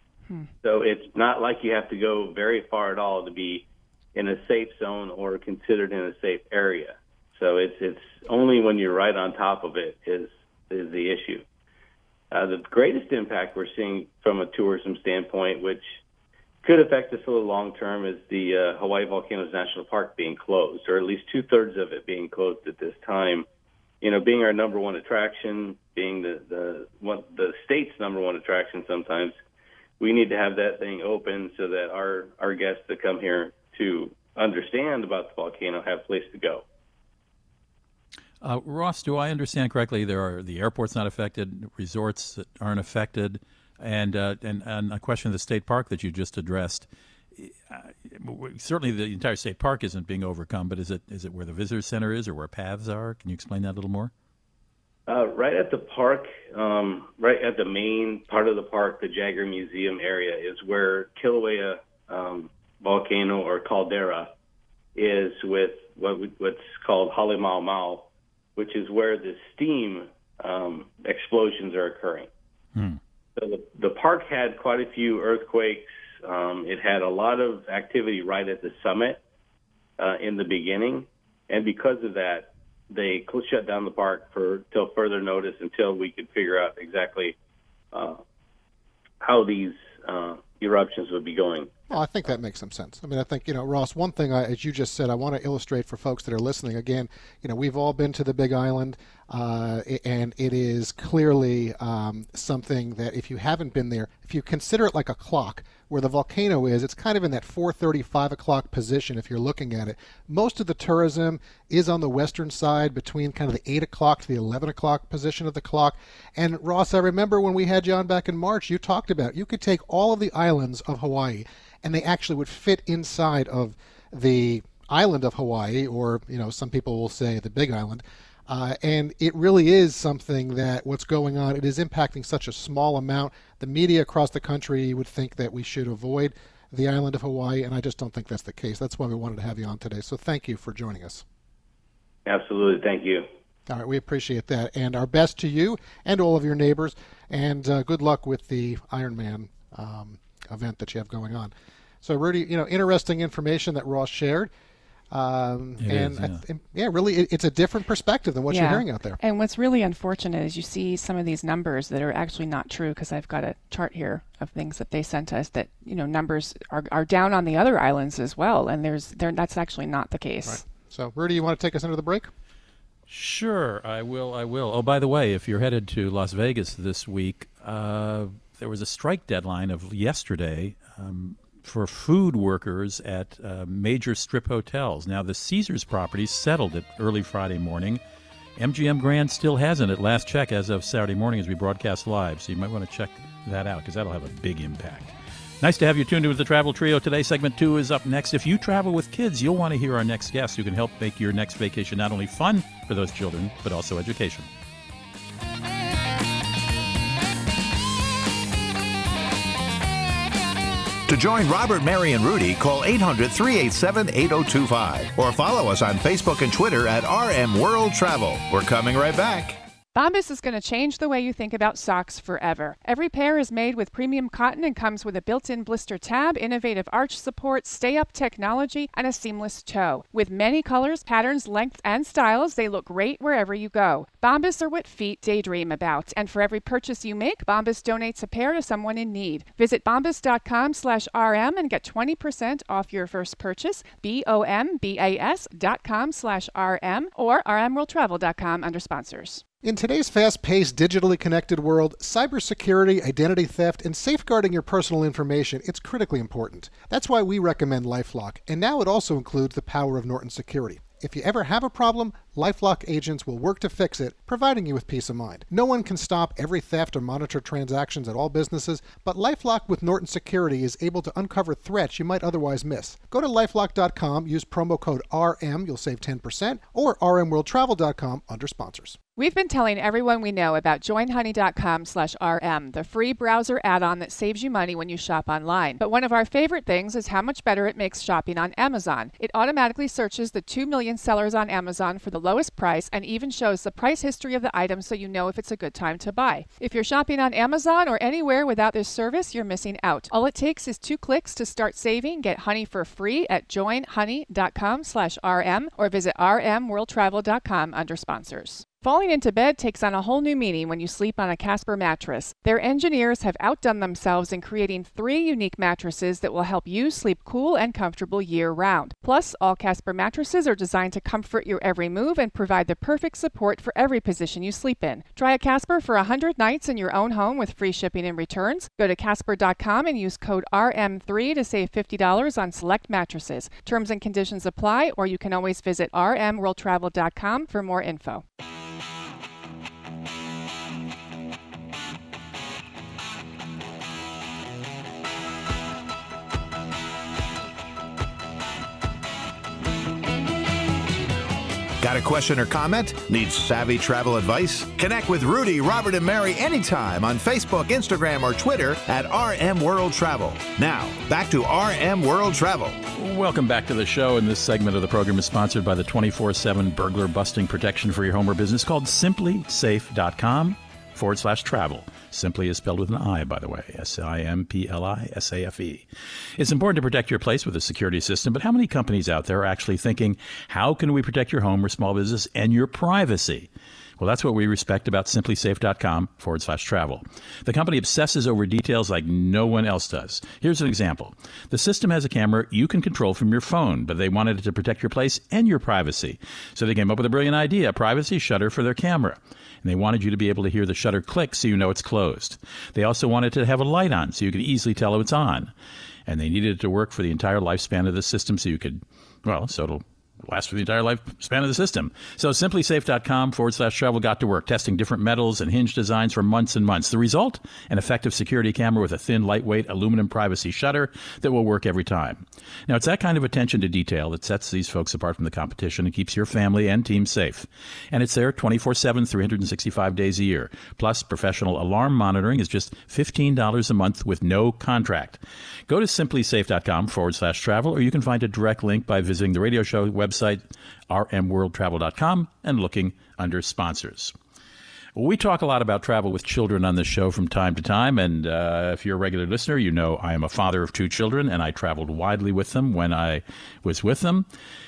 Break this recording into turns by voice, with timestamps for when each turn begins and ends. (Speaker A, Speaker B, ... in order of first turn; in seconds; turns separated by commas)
Speaker A: 0.6-11.4, Speaker A: 12.3-15.9, Speaker A: 16.6-23.5, Speaker A: 24.0-29.4, Speaker A: 30.0-36.6, Speaker B: 38.4-54.1, Speaker A: 55.1-64.3, Speaker A: 65.0-72.3, Speaker B: 72.8-73.0, Speaker A: 73.4-79.2, Speaker A: 80.0-87.4, Speaker A: 87.9-88.2, Speaker A: 89.2-91.7, Speaker C: 91.9-141.2, Speaker A: 142.3-143.3, Speaker C: 143.7-151.5, Speaker C: 152.0-154.5, Speaker C: 155.1-159.2, Speaker B: 155.8-156.4, Speaker D: 158.5-170.6, Speaker C: 170.5-172.3, Speaker B: 173.1-188.0, Speaker B: 188.6-204.5, Speaker E: 211.1-219.6, Speaker D: 219.9-249.4, Speaker C: 249.6-279.0, Speaker D: 279.2-338.2, Speaker E: 351.8-362.8, Speaker B: 362.9-405.5, Speaker B: 406.1-444.1, Speaker B: 444.9-454.3